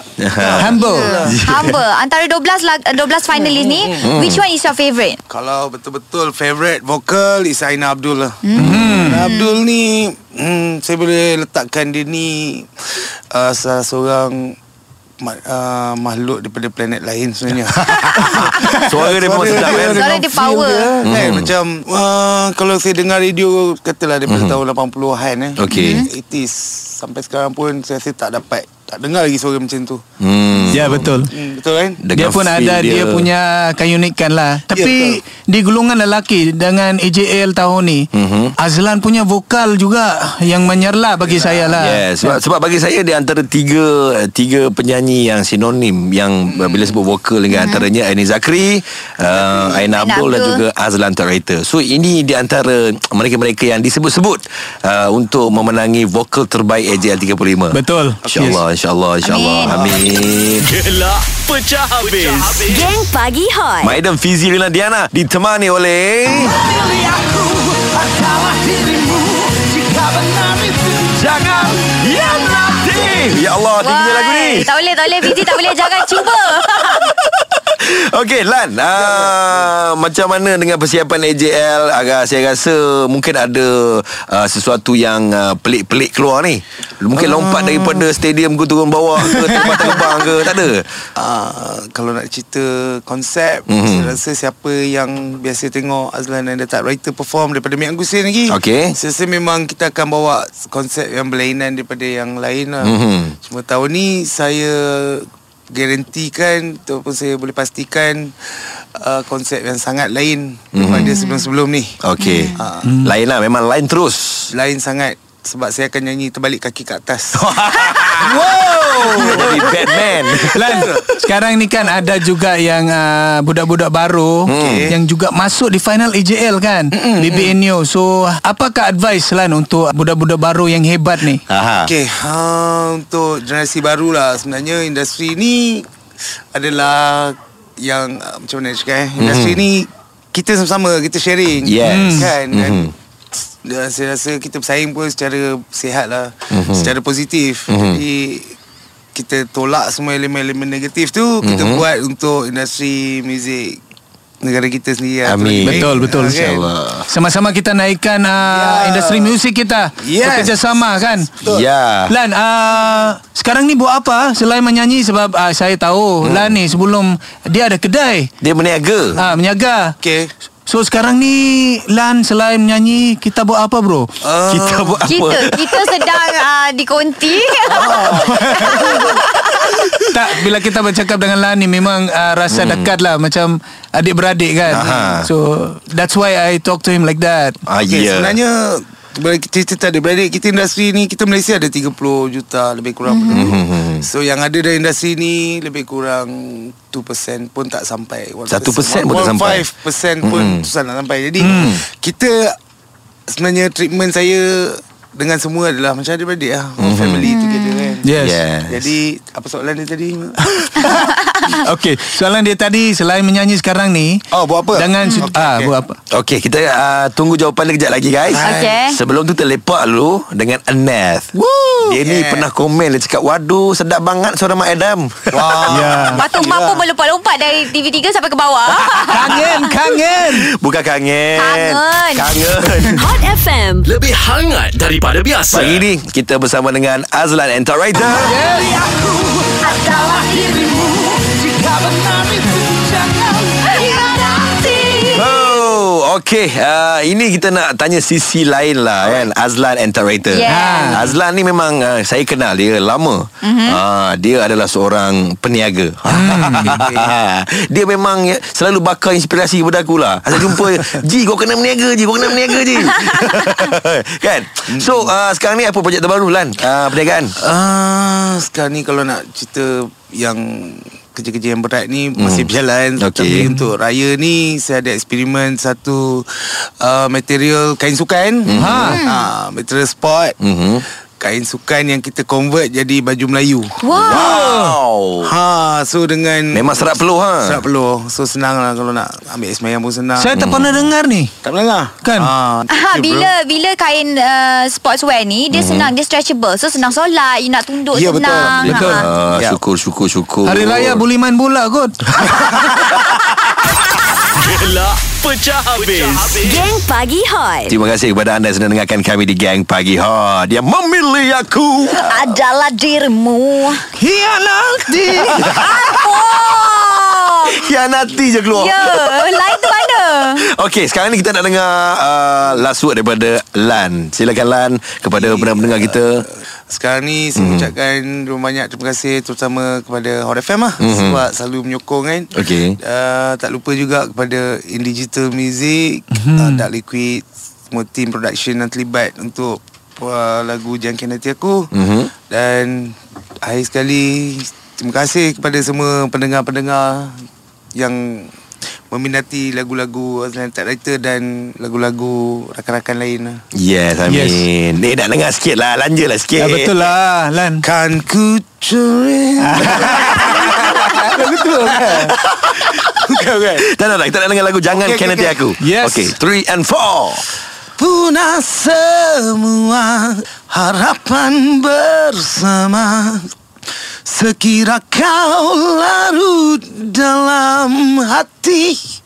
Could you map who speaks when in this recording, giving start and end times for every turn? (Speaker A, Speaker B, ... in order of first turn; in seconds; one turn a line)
Speaker A: 0.2-1.8
Speaker B: 0.4-1.4
Speaker C: 0.6-1.1
Speaker D: 0.8-5.2
Speaker B: 3.3-4.1
Speaker A: 4.0-4.4
Speaker B: 5.3-14.6
Speaker D: 8.4-9.6
Speaker C: 8.6-9.2
Speaker B: 15.2-30.0
Speaker A: 18.3-20.3
Speaker C: 18.4-18.8
Speaker D: 19.7-20.9
Speaker A: 21.0-21.5
Speaker A: 24.3-24.6
Speaker A: 25.6-26.1
Speaker D: 25.7-26.1
Speaker A: 30.2-31.1
Speaker C: 30.7-31.3
Speaker B: 31.3-32.0
Speaker A: 32.0-33.3
Speaker C: 32.1-42.4
Speaker B: 34.7-35.2
Speaker A: 38.1-38.5
Speaker B: 41.2-41.8
Speaker A: 41.8-60.7
Speaker B: 46.5-47.0
Speaker D: 47.5-47.9
Speaker B: 49.3-49.8
Speaker D: 49.9-50.6
Speaker C: 57.7-58.6
Speaker B: 58.2-58.6
Speaker D: 59.2-60.1
Speaker E: 60.6-62.9
Speaker F: 62.6-64.0
Speaker A: 63.8-66.7
Speaker E: 66.8-71.0
Speaker A: 71.0-90.9
Speaker D: 73.8-77.1
Speaker B: 79.0-79.7
Speaker B: 87.2-88.1
Speaker C: 89.3-89.6
Speaker B: 89.6-90.0
Speaker B: 91.2-112.0
Speaker A: 93.7-94.1
Speaker A: 98.5-99.0
Speaker A: 102.8-103.3
Speaker A: 110.7-111.2
Speaker D: 111.0-111.5
Speaker A: 112.0-114.5
Speaker D: 112.2-112.6
Speaker B: 112.5-112.9
Speaker C: 112.8-113.1
Speaker B: 114.5-117.5
Speaker A: 117.3-121.0
Speaker C: 118.2-119.8
Speaker B: 118.5-120.0
Speaker C: 120.3-131.4
Speaker B: 120.6-121.0
Speaker A: 124.5-124.9
Speaker B: 124.6-125.0
Speaker B: 126.9-127.6
Speaker A: 131.5-131.9
Speaker B: 131.9-135.9
Speaker B: 136.5-148.6
Speaker A: 139.2-139.6
Speaker A: 141.6-142.9
Speaker C: 141.8-142.3
Speaker A: 146.5-146.9
Speaker A: 147.7-148.0
Speaker B: 149.2-153.8
Speaker A: 151.4-151.8
Speaker B: 154.4-156.6
Speaker A: 155.2-157.1
Speaker C: 155.6-156.6
Speaker C: 157.1-161.3
Speaker B: 158.4-159.4
Speaker B: 160.0-161.7
Speaker A: 161.4-162.1
Speaker C: 162.1-168.3
Speaker A: 166.2-166.6
Speaker A: 168.4-169.2
Speaker C: 169.2-169.9
Speaker B: 170.0-170.3
Speaker C: 170.7-174.1
Speaker B: 174.2-175.1
Speaker A: 174.5-176.2
Speaker D: 175.1-179.8
Speaker B: 177.6-179.2
Speaker C: 178.2-179.1
Speaker C: 180.0-187.6
Speaker A: 182.5-182.9
Speaker A: 184.7-185.3
Speaker B: 184.8-185.1
Speaker A: 187.7-188.4
Speaker B: 187.9-202.6
Speaker D: 193.1-193.5
Speaker A: 193.3-194.1
Speaker A: 198.5-199.7
Speaker A: 200.2-200.7
Speaker C: 201.4-201.8
Speaker A: 201.4-201.7
Speaker B: 203.3-208.1
Speaker A: 206.8-207.3
Speaker D: 207.2-208.0
Speaker C: 208.0-208.4
Speaker A: 208.2-208.9
Speaker B: 208.7-210.5
Speaker C: 210.4-214.2
Speaker D: 210.9-211.6
Speaker B: 214.3-215.7
Speaker C: 214.8-216.0
Speaker D: 215.0-215.3
Speaker A: 216.1-221.3
Speaker B: 218.3-218.8
Speaker D: 218.4-219.0
Speaker C: 221.4-221.9
Speaker A: 221.9-226.0
Speaker B: 222.0-222.5
Speaker B: 225.3-226.9
Speaker C: 225.7-226.2
Speaker D: 226.1-229.7
Speaker A: 228.8-229.3
Speaker C: 229.1-230.5
Speaker A: 230.2-233.1
Speaker D: 231.3-232.4
Speaker F: 232.9-233.9
Speaker E: 233.8-235.8
Speaker A: 235.5-238.4
Speaker C: 238.1-238.8
Speaker F: 239.6-245.3
Speaker A: 245.1-267.4
Speaker D: 250.3-251.0
Speaker C: 250.5-251.1
Speaker D: 253.4-253.8
Speaker C: 256.1-256.8
Speaker B: 256.7-257.1
Speaker D: 263.0-263.7
Speaker B: 264.7-265.1
Speaker B: 267.4-280.4
Speaker A: 272.2-273.5
Speaker C: 273.3-273.6
Speaker A: 278.5-279.0
Speaker C: 278.6-279.0
Speaker D: 278.9-279.3
Speaker A: 280.4-280.8
Speaker B: 281.2-284.6
Speaker D: 283.8-284.4
Speaker A: 284.0-285.3
Speaker C: 284.1-284.8
Speaker B: 285.2-286.9
Speaker A: 286.5-287.6
Speaker B: 287.4-290.4
Speaker C: 290.2-291.3
Speaker A: 290.3-290.9
Speaker B: 291.4-293.3
Speaker C: 292.0-292.3
Speaker D: 292.7-299.1
Speaker A: 295.5-295.9
Speaker B: 297.9-298.8
Speaker A: 298.4-301.1
Speaker C: 298.7-299.1
Speaker B: 299.3-299.6
Speaker C: 300.4-302.5
Speaker E: 304.4-306.7
Speaker F: 306.4-307.7
Speaker A: 307.7-312.4
Speaker D: 311.9-313.9
Speaker C: 314.0-315.6
Speaker A: 315.1-316.3
Speaker D: 315.5-317.7
Speaker A: 317.4-319.7
Speaker D: 318.5-320.4
Speaker A: 320.3-326.3
Speaker B: 325.2-341.7
Speaker A: 327.4-327.7
Speaker A: 330.8-331.2
Speaker A: 332.4-332.8
Speaker C: 336.1-336.7
Speaker A: 341.7-342.1
Speaker B: 342.3-347.2
Speaker B: 347.8-348.3
Speaker B: 348.9-353.4
Speaker A: 353.5-356.9
Speaker C: 354.1-354.4
Speaker C: 356.4-357.6
Speaker B: 357.6-362.1
Speaker C: 359.4-362.1
Speaker A: 362.1-362.9
Speaker B: 362.8-363.6
Speaker A: 363.6-367.3
Speaker B: 364.7-365.4
Speaker C: 365.6-366.1
Speaker B: 367.8-373.3
Speaker B: 374.1-378.8